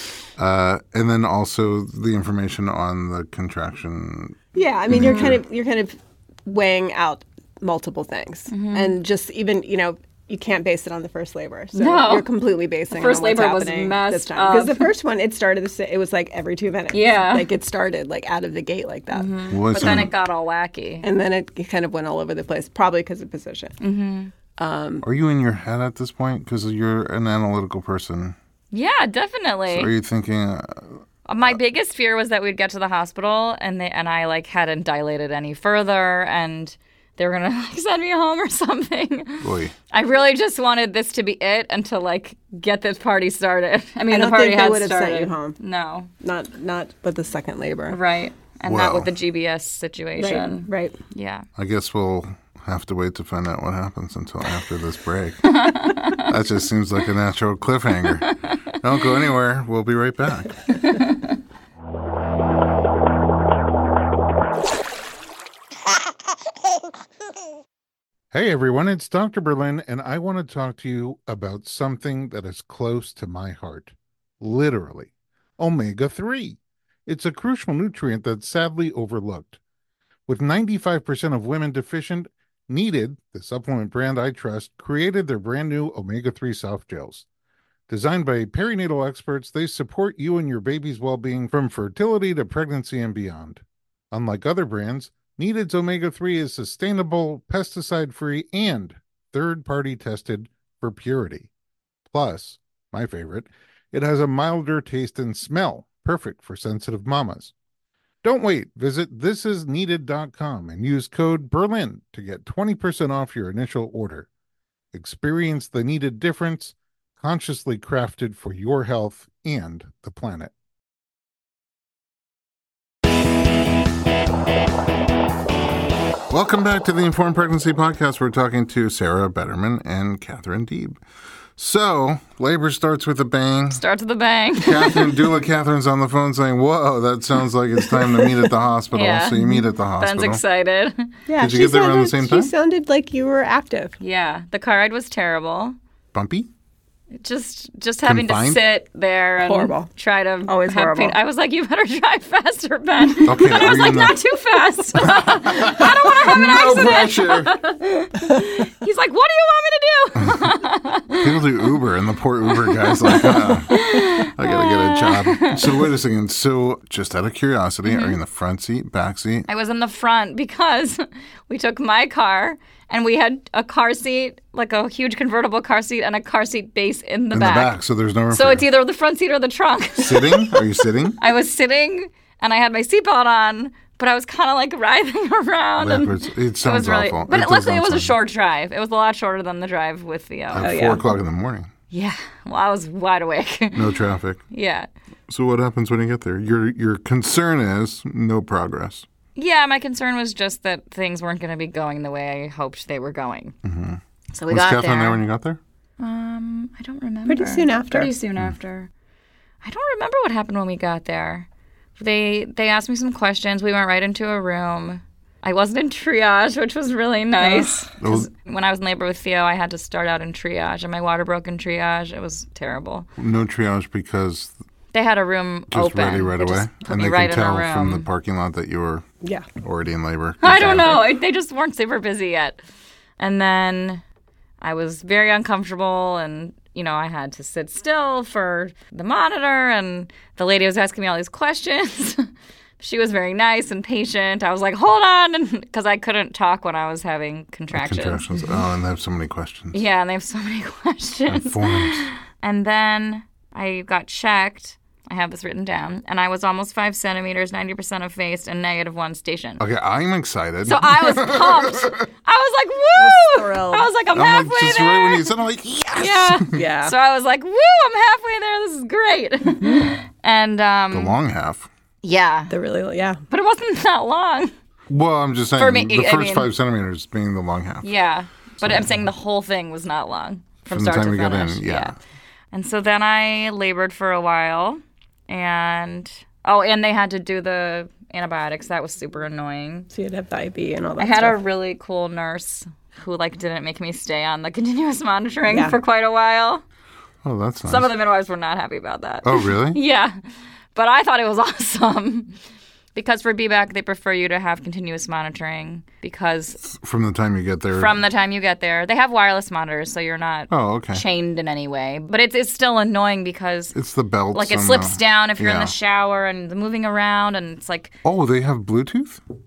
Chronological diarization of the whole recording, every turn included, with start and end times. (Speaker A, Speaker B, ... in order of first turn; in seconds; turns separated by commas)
Speaker A: 0.4-4.4, Speaker B: 4.5-20.1, Speaker A: 4.9-5.4, Speaker C: 5.0-5.3, Speaker C: 8.5-8.9, Speaker C: 11.8-12.3, Speaker C: 12.9-14.9, Speaker C: 16.9-17.5, Speaker C: 19.1-21.1, Speaker A: 19.5-20.1, Speaker B: 21.0-23.8, Speaker C: 23.8-24.3, Speaker B: 24.6-25.0, Speaker A: 25.0-28.4, Speaker C: 28.7-29.9, Speaker A: 29.7-31.0, Speaker C: 31.3-46.1, Speaker A: 39.4-39.8, Speaker B: 44.1-45.6, Speaker B: 46.2-48.0, Speaker C: 47.9-51.5, Speaker A: 48.7-49.1, Speaker B: 50.2-51.0, Speaker A: 51.6-60.6, Speaker C: 55.5-56.3, Speaker C: 58.3-58.7, Speaker C: 60.7-61.3, Speaker A: 68.3-79.6, Speaker A: 80.3-87.3, Speaker A: 87.9-101.5, Speaker A: 102.1-107.5, Speaker A: 108.2-114.3, Speaker A: 114.9-120.5, Speaker A: 126.3-131.0, Speaker A: 131.6-133.8, Speaker C: 133.7-135.2, Speaker A: 134.6-140.4, Speaker C: 138.9-141.1, Speaker B: 141.3-144.0, Speaker A: 141.4-142.5, Speaker C: 144.0-145.8, Speaker A: 146.1-146.5, Speaker C: 147.2-161.3, Speaker A: 148.0-148.6, Speaker B: 149.4-149.9, Speaker B: 150.5-151.2, Speaker A: 153.2-154.2, Speaker A: 155.0-157.5, Speaker A: 161.2-169.5, Speaker C: 162.7-165.8, Speaker C: 167.8-168.2, Speaker C: 169.5-177.8, Speaker A: 177.3-178.7, Speaker C: 178.3-180.6, Speaker A: 180.0-181.2, Speaker C: 181.2-190.8, Speaker A: 185.8-188.2, Speaker A: 190.5-191.7, Speaker B: 190.6-191.0, Speaker C: 191.9-193.9, Speaker A: 193.8-194.4, Speaker C: 194.5-194.9, Speaker A: 195.3-199.1, Speaker C: 199.4-203.6, Speaker A: 203.6-205.6, Speaker C: 204.3-205.2, Speaker C: 206.0-208.9, Speaker B: 207.3-208.1, Speaker C: 209.6-223.1, Speaker B: 217.4-217.8, Speaker A: 218.0-218.3, Speaker A: 223.2-224.5, Speaker C: 224.9-228.1, Speaker A: 225.7-229.1, Speaker B: 229.2-229.5, Speaker A: 229.6-231.1, Speaker C: 230.4-232.6, Speaker C: 233.2-234.0, Speaker C: 234.6-242.3, Speaker C: 242.8-248.2, Speaker A: 247.7-249.8, Speaker C: 249.7-259.6, Speaker A: 251.3-252.1, Speaker A: 259.6-262.1, Speaker C: 260.7-265.3, Speaker B: 263.0-263.9, Speaker A: 264.1-266.6, Speaker C: 266.0-271.2, Speaker B: 266.5-266.9, Speaker A: 270.9-271.7, Speaker C: 272.0-272.5, Speaker B: 272.5-273.2, Speaker C: 273.3-274.5, Speaker A: 274.9-277.9, Speaker C: 275.6-276.5, Speaker C: 277.8-281.9, Speaker A: 278.6-279.0, Speaker A: 280.7-281.9, Speaker C: 282.5-289.9, Speaker B: 289.9-291.4, Speaker C: 291.0-296.6, Speaker B: 295.5-295.8, Speaker A: 297.2-297.9, Speaker C: 297.6-300.1, Speaker A: 299.2-299.8, Speaker C: 300.8-302.4, Speaker C: 302.9-306.7, Speaker A: 306.7-308.0, Speaker C: 307.7-313.8, Speaker A: 310.5-311.0, Speaker A: 313.7-315.7, Speaker C: 314.3-318.0, Speaker A: 318.0-319.2